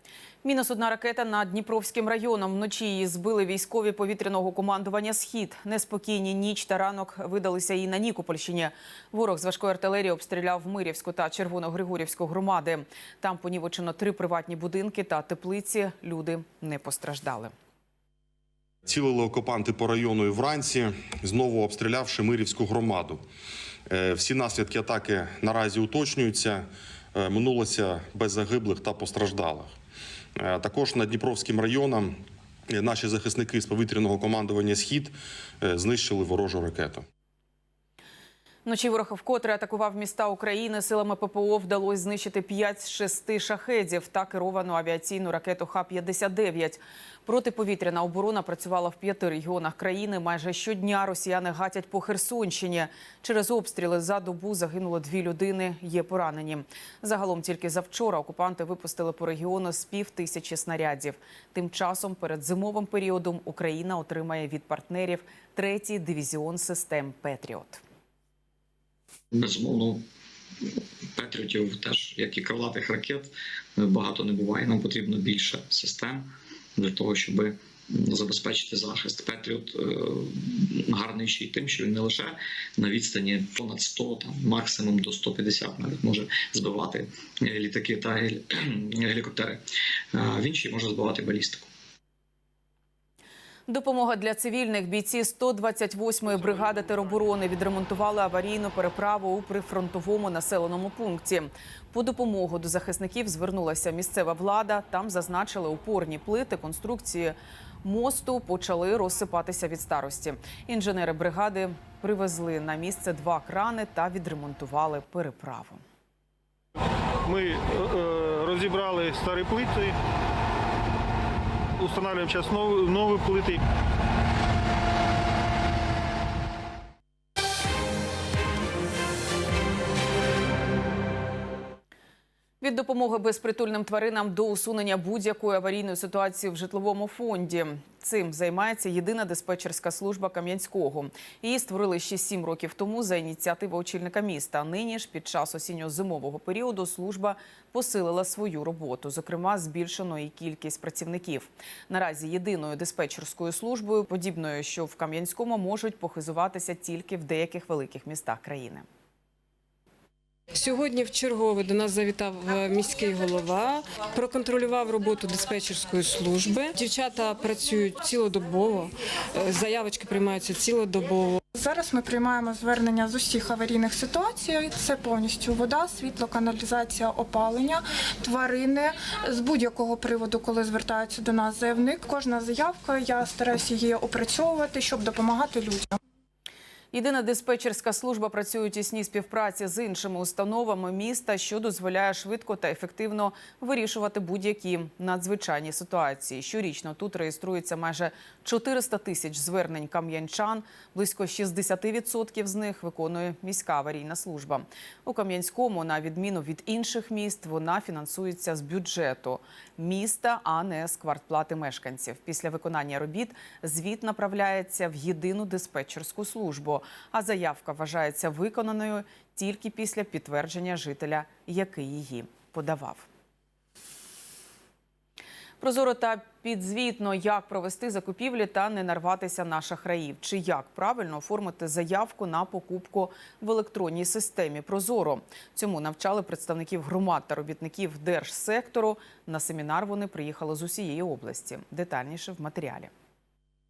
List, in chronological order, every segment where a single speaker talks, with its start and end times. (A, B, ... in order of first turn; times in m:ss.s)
0:00.4-0:17.5 A
0:18.9-0:23.2 B
0:23.9-0:29.7 B
0:30.4-0:32.2 B
0:32.7-0:37.0 B
0:38.7-1:07.8 A
1:09.3-1:10.0 C
1:11.2-1:29.6 C
1:30.1-1:31.7 C
1:33.7-1:55.8 A
1:57.2-2:00.0 D
2:01.8-2:03.6 D
2:12.6-2:38.9 A
2:40.5-2:51.4 E
2:51.6-3:06.0 F
3:06.9-3:43.1 A
3:45.6-4:02.9 A